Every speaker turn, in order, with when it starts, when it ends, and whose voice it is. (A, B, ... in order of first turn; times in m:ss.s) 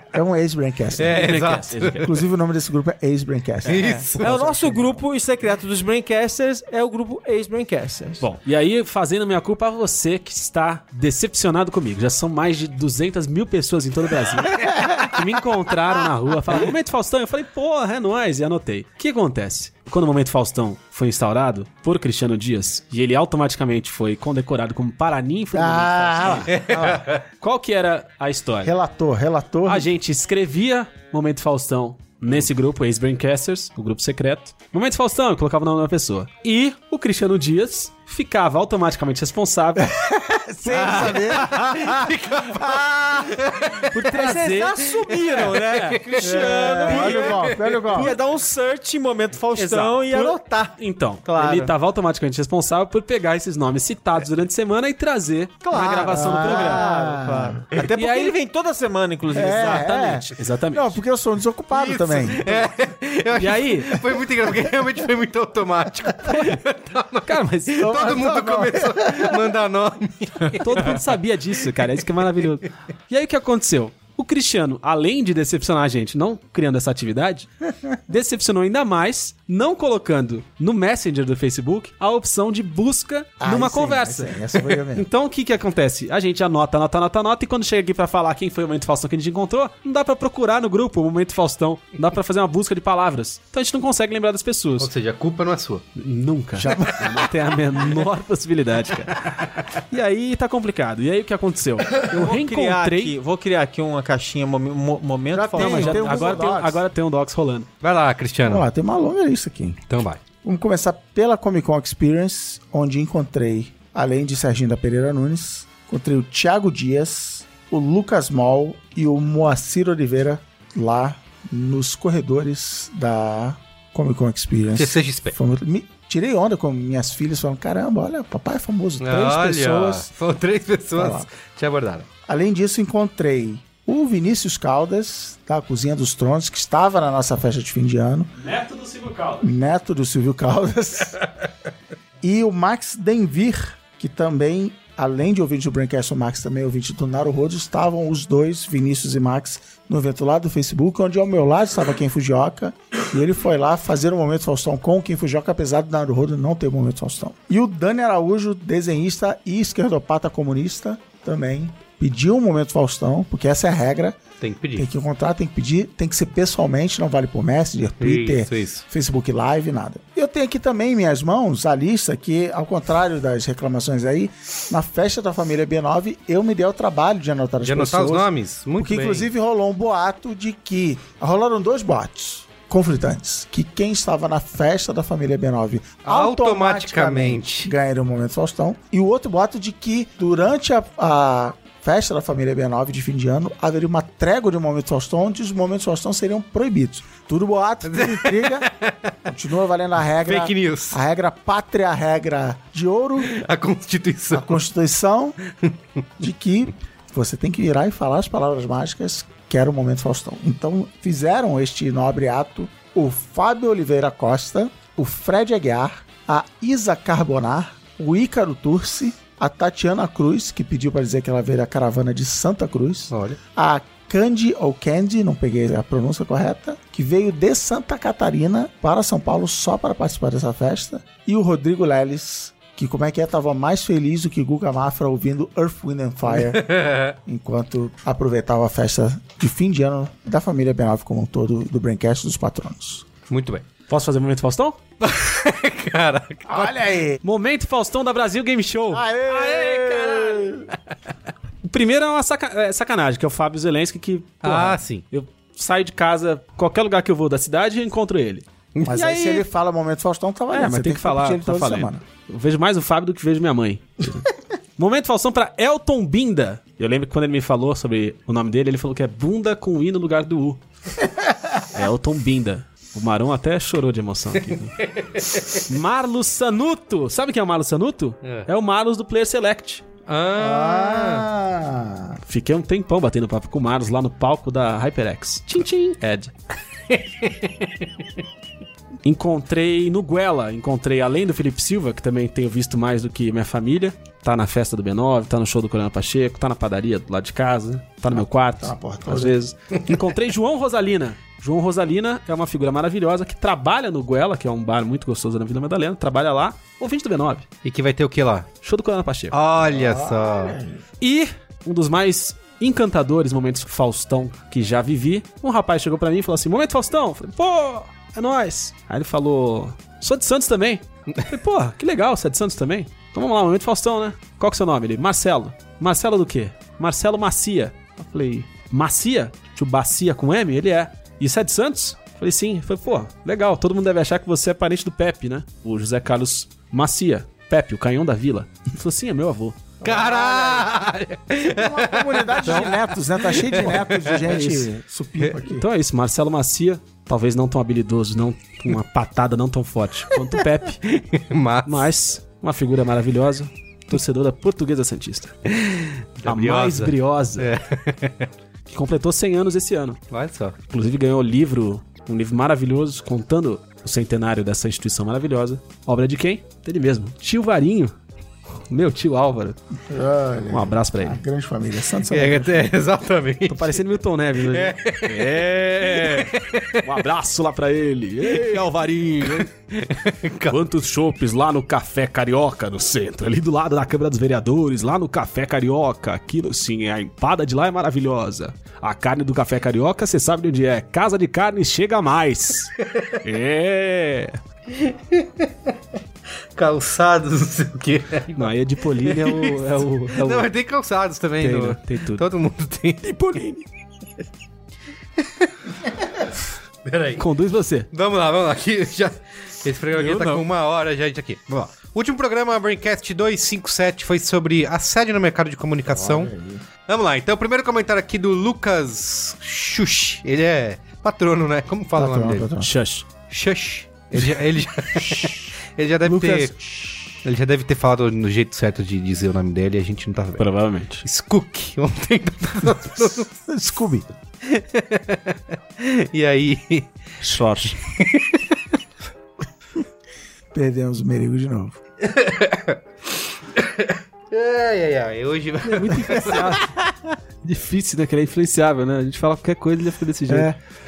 0:00.1-0:01.3 A
0:01.0-0:02.1 B
0:01.2-0:02.1 C
0:02.0-0:05.0 A
0:03.6-0:04.3 B
0:03.7-0:08.2 D
0:08.2-0:26.7 C
0:25.5-0:27.1 A
0:26.5-0:27.2 B
0:27.4-0:28.7 C
0:28.6-0:29.9 A
0:29.7-0:39.9 C
0:39.8-0:43.8 A
0:40.7-0:43.9 B
0:43.9-0:45.0 C
0:44.0-0:51.7 D
0:45.1-0:48.0 B
0:45.5-0:47.1 C
0:46.2-0:48.2 A
0:49.6-0:56.8 C
0:55.6-1:00.1 D
0:55.7-0:57.6 A
0:58.0-0:58.4 C
0:59.3-1:02.7 A
0:59.7-1:01.0 C
1:01.7-1:11.0 B
1:03.4-1:04.0 C
1:07.2-1:08.1 C
1:07.8-1:09.5 A
1:10.6-1:17.5 C
1:18.1-1:34.9 C
1:23.4-1:25.1 A
1:34.8-1:35.8 B
1:36.0-1:43.2 C
1:36.6-1:37.2 A
1:42.1-1:46.4 D
1:45.3-1:46.8 A
1:45.6-1:47.7 C
1:47.8-1:48.7 B
1:48.4-1:49.8 A
1:49.9-1:50.2 B
1:50.4-2:10.1 A
2:04.7-2:05.4 B
2:09.0-2:12.1 B
2:11.0-2:11.3 A
2:12.3-2:18.3 A
2:18.4-2:19.5 C
2:19.4-2:21.2 A
2:22.2-2:44.2 A
2:44.4-2:44.9 B
2:44.8-3:18.7 A
2:48.0-2:48.8 B
2:57.6-2:59.3 B
3:06.1-3:07.7 B
3:17.9-3:19.2 B
3:19.3-3:23.4 A
3:20.2-3:21.0 B
3:23.2-3:24.6 B
3:24.3-3:25.4 A
3:26.2-4:03.1 A
3:43.1-3:43.4 B
3:56.3-3:57.2 B
4:03.3-4:03.7 B
4:03.9-4:04.8 C
4:05.0-4:06.8 B
4:06.5-4:07.2 A
4:07.2-4:10.1 C
4:08.9-4:10.7 A
4:09.5-4:10.4 B
4:11.6-4:19.4 C
4:14.4-4:15.0 B
4:18.8-4:22.0 A
4:20.5-4:30.6 C
4:31.7-4:34.8 C
4:35.0-4:35.6 B
4:35.7-4:39.8 C
4:38.2-4:38.5 B
4:40.1-4:41.3 B
4:40.4-4:42.2 A
4:42.2-4:46.3 C
4:46.9-4:47.7 B
4:49.0-5:07.5 C
4:58.1-4:59.4 A
5:07.6-5:08.5 B
5:08.6-5:09.4 C
5:09.3-5:10.6 B
5:09.7-5:10.8 A
5:11.0-5:39.6 C
5:28.0-5:28.4 A
5:39.8-5:40.7 A
5:39.8-5:44.3 B
5:41.4-5:45.7 A
5:44.2-5:44.7 C
5:45.5-5:51.0 C
5:51.0-5:51.9 B
5:51.7-5:55.4 C
5:55.5-5:58.3 B
5:56.3-5:57.5 C
5:58.7-6:00.0 C
6:00.1-6:00.6 B
6:00.7-6:07.9 C
6:08.7-6:09.6 C
6:09.8-6:12.7 A
6:10.5-6:11.2 C
6:12.1-6:13.8 B
6:13.5-6:19.5 C
6:14.5-6:16.9 B
6:18.3-6:18.6 B
6:19.2-6:20.6 B
6:20.5-6:34.4 C
6:34.8-6:35.5 B
6:36.6-6:43.0 B
6:38.3-6:40.5 C
6:41.4-6:42.2 C
6:43.0-6:43.6 C
6:46.8-6:47.2 B
6:47.2-6:47.9 C
6:47.9-6:56.3 B
6:50.0-6:50.4 C
6:55.9-6:56.6 A
6:56.9-7:02.5 B
7:02.0-7:02.7 A
7:02.6-7:03.1 C
7:03.3-7:06.6 B
7:06.1-7:07.0 A
7:06.1-7:06.5 C
7:07.2-7:10.5 B
7:10.4-7:11.0 C
7:11.0-7:13.3 B
7:13.5-7:14.1 A
7:14.4-7:16.9 B
7:17.2-7:17.8 C
7:18.0-7:18.5 B
7:20.5-7:21.8 A
7:22.0-7:22.8 B
7:23.6-7:26.6 B
7:25.7-7:26.7 C
7:27.4-7:30.5 C
7:30.3-7:30.6 A